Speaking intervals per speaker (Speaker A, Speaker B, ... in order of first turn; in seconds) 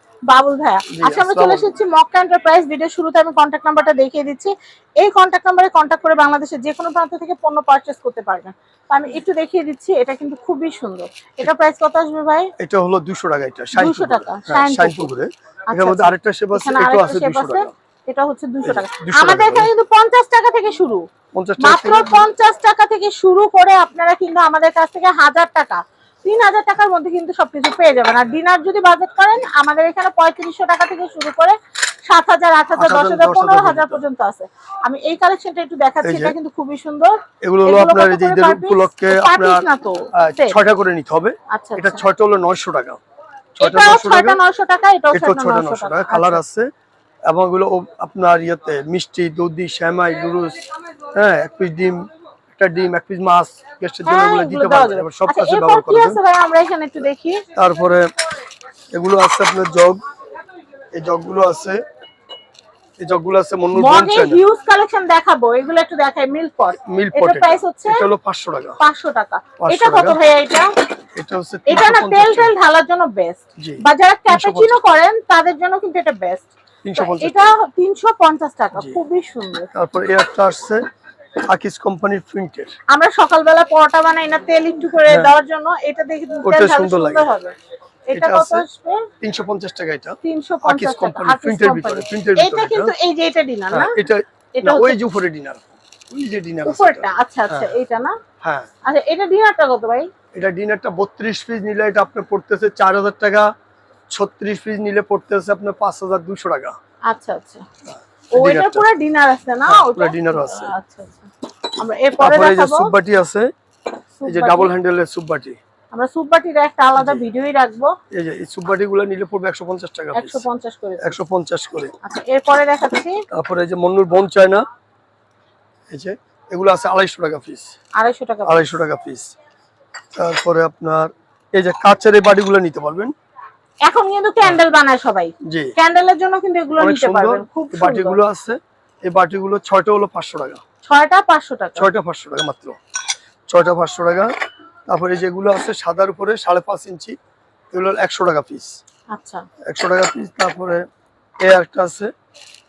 Speaker A: 0.3-12.5, 13.7-15.1, 15.7-21.0, 21.6-40.5, 41.5-42.0, 43.6-46.4, 54.0-57.4, 63.7-68.0, 68.8-70.7, 71.7-79.7, 82.9-87.5, 88.1-89.1, 90.2-94.0, 94.5-95.0, 96.6-98.2, 98.8-100.1, 107.1-107.7, 108.3-112.9, 114.2-114.7, 115.9-117.9, 120.1-121.2, 122.0-123.2, 128.0-128.7, 133.8-138.2, 140.8-141.9, 149.1-149.4
Speaker B: 0.9-1.7, 12.6-17.7, 18.6-19.7, 21.3-22.2, 32.8-34.0, 36.0-36.4, 37.4-43.0, 43.6-44.4, 45.1-46.7, 47.3-56.2, 57.5-58.1, 58.9-60.0, 60.9-61.8, 63.0-64.4, 66.8-68.8, 69.6-70.2, 71.2-72.5, 73.6-74.8, 76.8-77.5, 79.7-80.8, 81.4-82.7, 85.0-85.3, 86.4-87.3, 88.1-88.7, 89.2-92.9, 93.7-97.7, 98.4-98.7, 100.3-103.5, 104.1-106.8, 107.8-108.9, 109.6-110.7, 112.2-113.5, 114.2-115.6, 117.0-117.2, 118.1-120.4, 121.0-121.9, 123.3-124.6, 125.9-127.7, 128.4-129.3, 130.1-133.1, 135.4-135.7, 136.8-140.6, 141.8-142.8, 143.5-144.3, 144.9-147.2, 147.7-148.7, 149.7-150.8, 151.4-152.1